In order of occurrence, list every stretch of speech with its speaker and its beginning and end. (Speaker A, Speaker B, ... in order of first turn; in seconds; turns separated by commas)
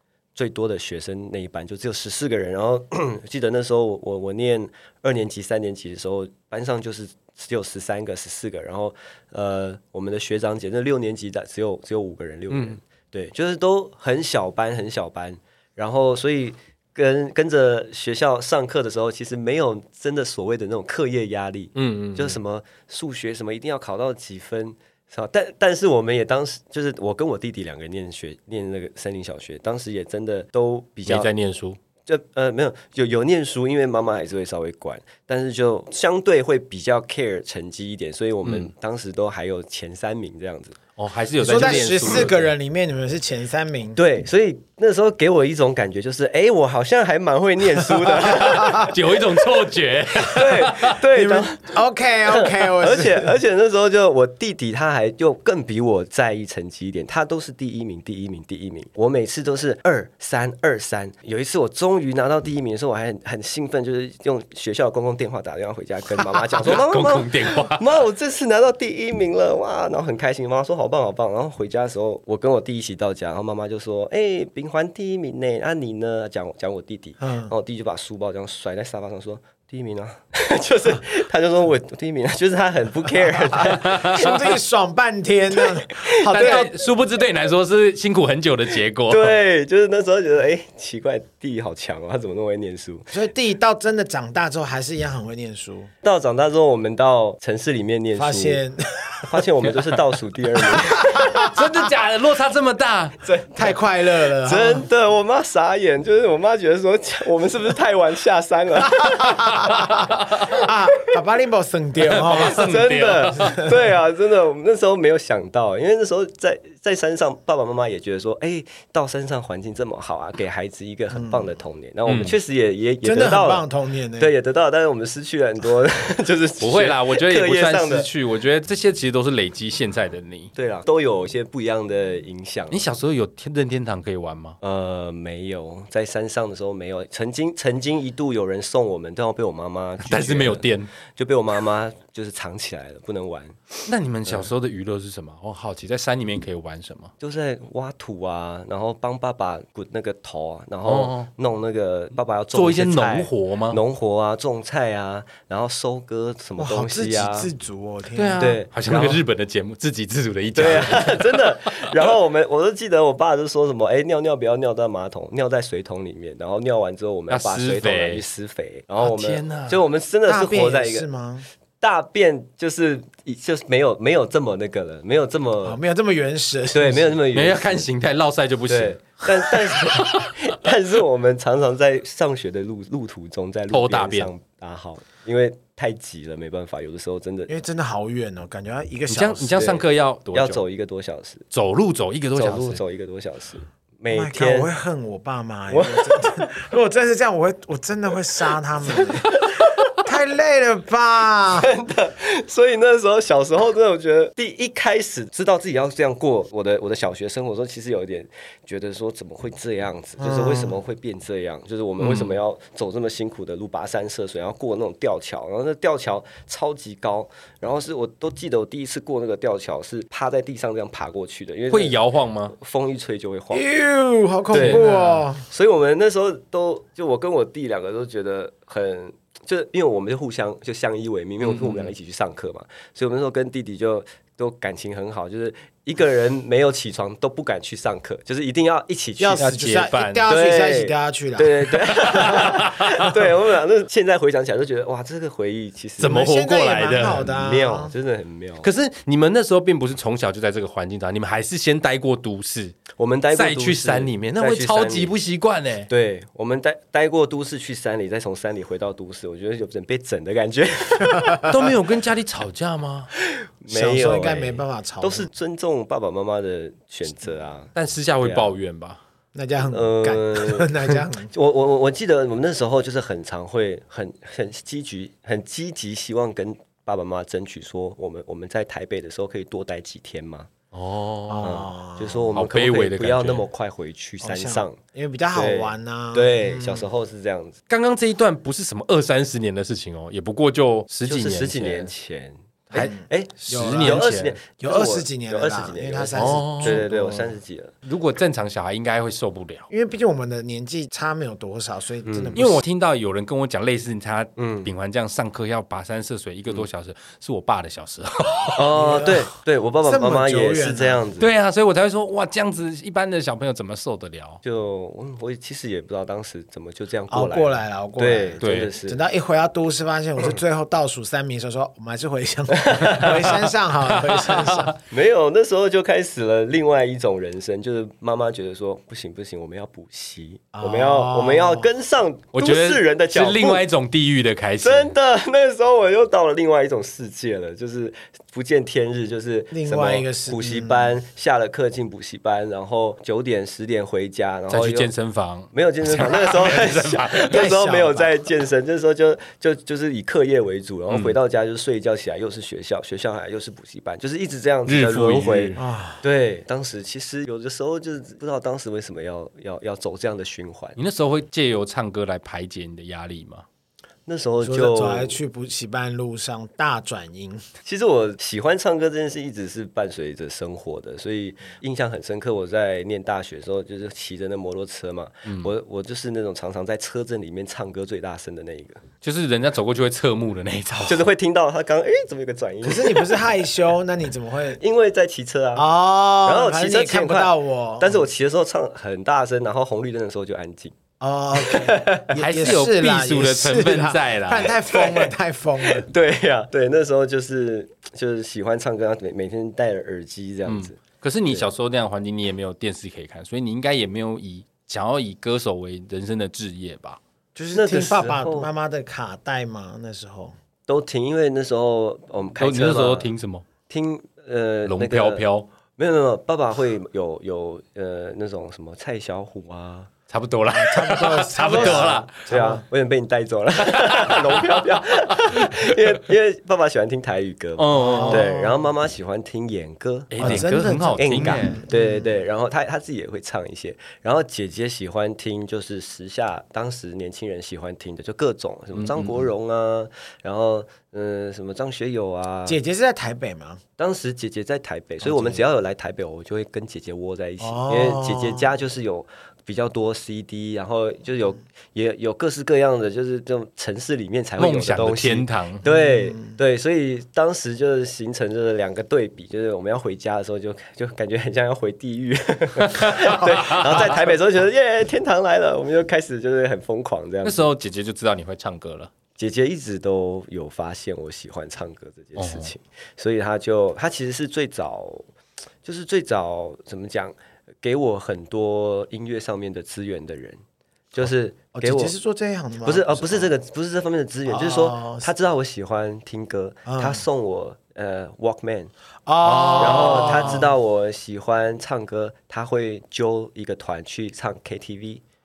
Speaker A: 0.3-31.3, Speaker B: 12.5-12.8, Speaker B: 21.7-22.4, Speaker B: 31.1-31.8, Speaker A: 32.0-40.8, Speaker B: 41.0-42.5, Speaker C: 41.4-44.0, Speaker A: 41.5-41.9, Speaker A: 44.0-49.4, Speaker B: 48.3-51.0, Speaker C: 48.4-48.9, Speaker A: 50.2-51.7, Speaker C: 51.1-53.3, Speaker A: 52.3-84.4, Speaker B: 66.6-67.9, Speaker C: 77.2-77.5, Speaker C: 83.6-86.7, Speaker B: 83.8-84.3, Speaker A: 86.3-86.7, Speaker B: 86.3-89.3, Speaker A: 89.1-93.1, Speaker C: 93.1-95.9, Speaker A: 96.0-98.6, Speaker C: 98.2-99.2, Speaker A: 99.3-101.3, Speaker C: 100.8-101.5, Speaker B: 101.2-103.2, Speaker A: 103.2-103.8, Speaker C: 103.5-104.8, Speaker A: 104.4-109.7, Speaker C: 109.0-112.8, Speaker B: 112.1-113.7, Speaker A: 112.2-123.7, Speaker C: 113.4-113.7, Speaker C: 121.1-121.5, Speaker B: 122.1-122.3, Speaker C: 123.0-124.3, Speaker A: 124.2-128.1, Speaker B: 126.6-130.5, Speaker A: 130.5-132.8, Speaker B: 132.7-134.6, Speaker A: 134.6-143.6, Speaker B: 140.0-140.9, Speaker B: 143.9-147.1, Speaker A: 147.2-157.5, Speaker B: 150.8-151.3, Speaker B: 152.5-153.8, Speaker C: 156.6-158.5, Speaker B: 158.1-161.8, Speaker A: 158.4-159.2, Speaker A: 160.5-171.1, Speaker B: 167.3-168.2, Speaker B: 169.0-169.8, Speaker C: 170.3-171.5, Speaker A: 171.8-175.8, Speaker C: 175.6-177.2, Speaker A: 176.7-177.9, Speaker B: 177.3-180.4, Speaker A: 178.7-187.5, Speaker B: 183.7-184.3, Speaker C: 187.5-189.6, Speaker B: 189.1-190.6, Speaker A: 189.5-191.4, Speaker B: 191.5-192.8, Speaker A: 192.3-194.7, Speaker C: 194.1-199.3, Speaker A: 195.7-196.5, Speaker A: 198.9-199.9, Speaker C: 200.0-201.7, Speaker A: 201.5-222.0, Speaker C: 210.2-210.8, Speaker B: 212.0-212.3, Speaker B: 221.7-222.5, Speaker A: 222.5-223.6, Speaker C: 223.5-225.4, Speaker A: 224.5-239.5, Speaker B: 224.5-225.2, Speaker B: 231.4-231.9, Speaker C: 239.2-242.1, Speaker B: 239.4-240.3, Speaker A: 240.3-246.2, Speaker B: 241.9-243.2, Speaker B: 246.0-247.3, Speaker C: 246.0-247.9, Speaker A: 247.1-248.7, Speaker B: 248.6-255.9, Speaker A: 252.9-255.1, Speaker A: 255.9-261.8, Speaker C: 261.1-261.4, Speaker B: 261.5-263.1, Speaker A: 263.2-268.5, Speaker C: 263.7-265.3, Speaker B: 267.7-269.0, Speaker C: 269.3-271.3, Speaker A: 269.7-280.5, Speaker B: 280.7-281.6, Speaker C: 281.3-282.2, Speaker A: 281.4-284.8, Speaker B: 282.3-283.4, Speaker C: 284.2-286.9, Speaker A: 285.3-287.6, Speaker B: 287.7-291.9, Speaker A: 291.0-297.7, Speaker C: 292.7-297.3, Speaker B: 292.7-294.4, Speaker B: 296.1-296.8, Speaker B: 297.9-299.7, Speaker C: 299.7-302.6, Speaker A: 302.1-302.4, Speaker B: 302.3-308.7, Speaker A: 304.4-304.7, Speaker A: 308.6-311.3, Speaker C: 308.7-309.3, Speaker C: 309.9-311.0, Speaker B: 311.2-314.4, Speaker A: 314.4-319.0, Speaker C: 317.1-324.8, Speaker B: 318.4-318.7, Speaker A: 322.6-323.0, Speaker B: 322.9-324.7, Speaker A: 324.9-333.6, Speaker C: 330.5-331.7, Speaker B: 332.3-334.9, Speaker A: 334.6-344.9, Speaker C: 339.5-340.9, Speaker B: 344.5-347.5, Speaker A: 345.5-360.8, Speaker C: 347.3-348.1, Speaker B: 350.9-351.1, Speaker B: 354.7-355.6, Speaker C: 355.6-356.0, Speaker B: 360.8-363.4, Speaker A: 364.1-365.2, Speaker C: 364.4-367.4, Speaker A: 367.6-378.8, Speaker B: 375.3-375.5, Speaker B: 379.0-381.1, Speaker A: 380.8-383.1, Speaker C: 382.6-384.6, Speaker A: 384.6-385.7, Speaker C: 385.5-388.0, Speaker A: 386.2-390.8, Speaker C: 391.0-395.9, Speaker A: 391.4-392.0, Speaker B: 392.2-394.5, Speaker A: 394.7-401.5, Speaker B: 400.4-407.0, Speaker C: 407.4-410.3, Speaker A: 407.5-408.5, Speaker A: 410.7-413.1, Speaker B: 412.4-413.5, Speaker A: 413.7-415.2, Speaker B: 414.6-415.5, Speaker A: 415.8-419.9, Speaker B: 420.1-422.2, Speaker C: 420.5-422.6, Speaker A: 421.4-442.6, Speaker B: 423.6-425.9, Speaker B: 427.6-428.3, Speaker C: 427.7-428.6, Speaker B: 430.1-431.6, Speaker C: 430.2-432.2, Speaker B: 438.8-439.3, Speaker C: 442.4-443.6, Speaker A: 443.8-467.4, Speaker C: 445.0-445.4, Speaker C: 447.4-448.5, Speaker B: 454.4-455.6, Speaker C: 455.6-456.4, Speaker B: 462.6-464.0, Speaker B: 467.2-468.9, Speaker A: 469.1-475.1, Speaker B: 472.2-472.5, Speaker A: 475.6-480.4, Speaker A: 480.9-481.9, Speaker C: 481.5-483.3, Speaker A: 482.6-488.7, Speaker C: 484.3-485.1, Speaker C: 486.6-487.0, Speaker C: 489.1-490.5, Speaker B: 489.2-490.4, Speaker A: 489.6-495.0